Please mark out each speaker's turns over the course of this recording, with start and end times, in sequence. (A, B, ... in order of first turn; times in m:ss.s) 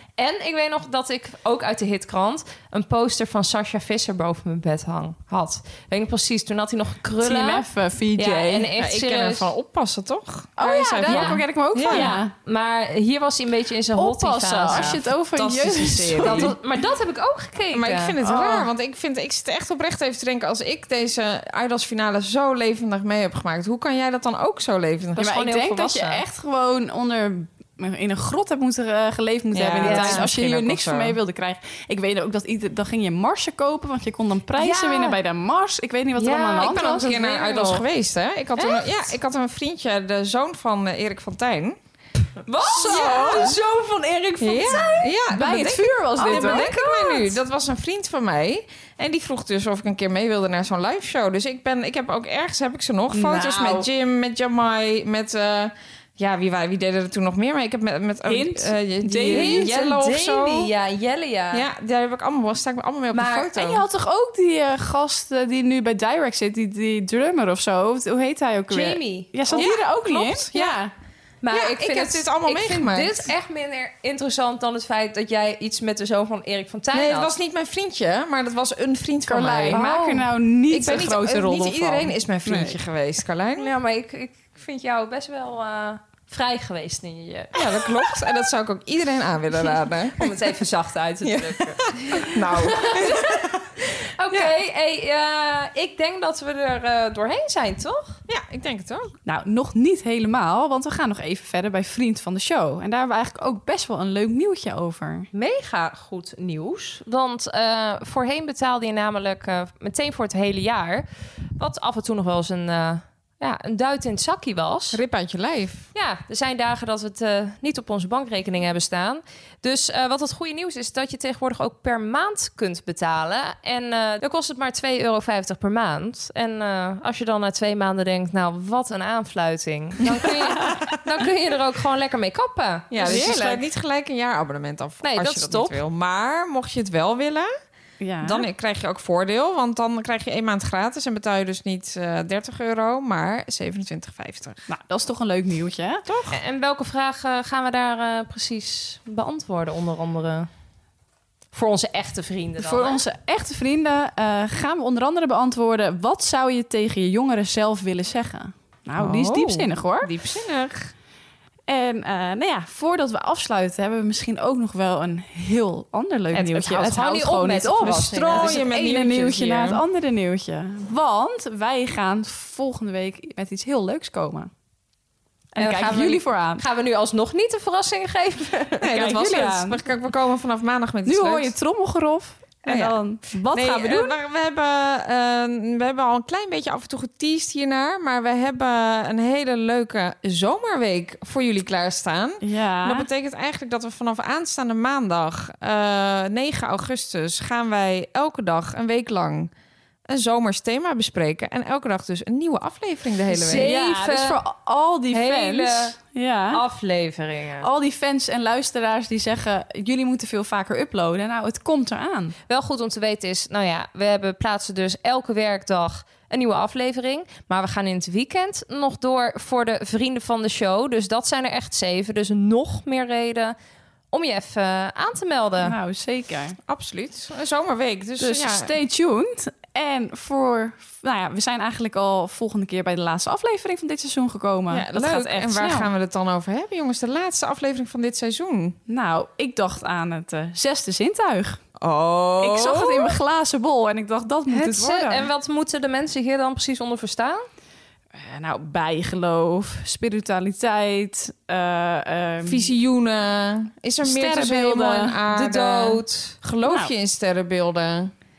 0:00.2-0:09.5 A
0:07.2-0:08.6 B
0:08.8-0:12.1 C
0:10.6-0:12.3 B
0:11.1-0:15.0 A
0:14.0-0:16.5 B
0:14.7-0:16.6 C
0:16.2-0:18.4 A
0:17.7-0:25.3 C
0:18.2-0:18.7 B
0:25.2-0:26.2 A
0:25.2-0:37.1 B
0:29.5-0:31.2 C
0:29.8-0:30.2 A
0:34.6-0:35.2 A
0:36.2-0:37.8 A
0:36.6-0:41.8 C
0:38.6-0:38.9 A
0:42.5-0:45.1 A
0:42.8-0:43.5 B
0:42.8-0:43.6 C
0:44.4-1:00.7 C
0:44.7-0:46.7 B
0:46.2-0:47.4 A
0:53.1-0:53.9 B
0:58.2-1:00.1 B
0:59.2-1:01.6 A
1:01.5-1:03.8 C
1:03.1-1:03.6 A
1:03.6-1:10.9 B
1:08.7-1:09.6 A
1:09.5-1:10.8 C
1:11.4-1:17.3 A
1:11.5-1:13.3 C
1:16.9-1:19.8 C
1:19.3-1:22.8 B
1:19.7-1:20.3 A
1:20.7-1:23.7 C
1:23.6-1:28.2 A
1:27.5-1:30.5 C
1:29.6-1:38.2 A
1:31.2-1:33.7 C
1:38.3-1:39.2 C
1:39.2-1:45.3 B
1:45.3-1:55.0 A
1:54.9-1:55.9 C
1:55.9-2:12.9 A
2:12.9-2:17.5 C
2:13.0-2:13.6 B
2:15.0-2:15.8 A
2:18.0-2:18.5 B
2:18.2-2:24.6 C
2:24.7-2:26.0 B
2:26.0-2:26.4 C
2:26.3-2:30.5 A
2:31.5-2:33.0 A
2:32.6-2:40.1 B
2:39.0-2:40.9 C
2:41.7-2:54.5 B
2:46.3-2:48.7 A
2:47.8-2:49.8 C
2:55.5-2:56.6 B
2:55.6-2:58.9 A
2:58.8-3:01.5 C
2:58.9-2:59.8 B
3:01.0-3:03.7 B
3:02.6-3:03.0 C
3:03.5-3:04.1 A
3:03.5-3:19.5 C
3:12.4-3:13.1 B
3:20.1-3:23.7 C
3:23.3-3:24.4 A
3:23.6-3:26.6 B
3:25.1-3:26.0 A
3:26.5-3:27.7 A
3:27.6-3:32.3 B
3:32.5-3:43.6 A
3:44.1-3:45.8 A
3:45.6-3:46.6 B
3:46.7-3:48.7 C
3:48.2-3:55.9 B
3:54.7-3:58.8 C
3:58.9-4:01.6 B
4:01.8-4:03.2 C
4:02.4-4:05.2 B
4:04.5-4:07.4 A
4:08.1-4:12.7 B
4:12.4-4:18.1 C
4:14.0-4:15.2 B
4:15.3-4:16.4 A
4:16.6-4:16.9 B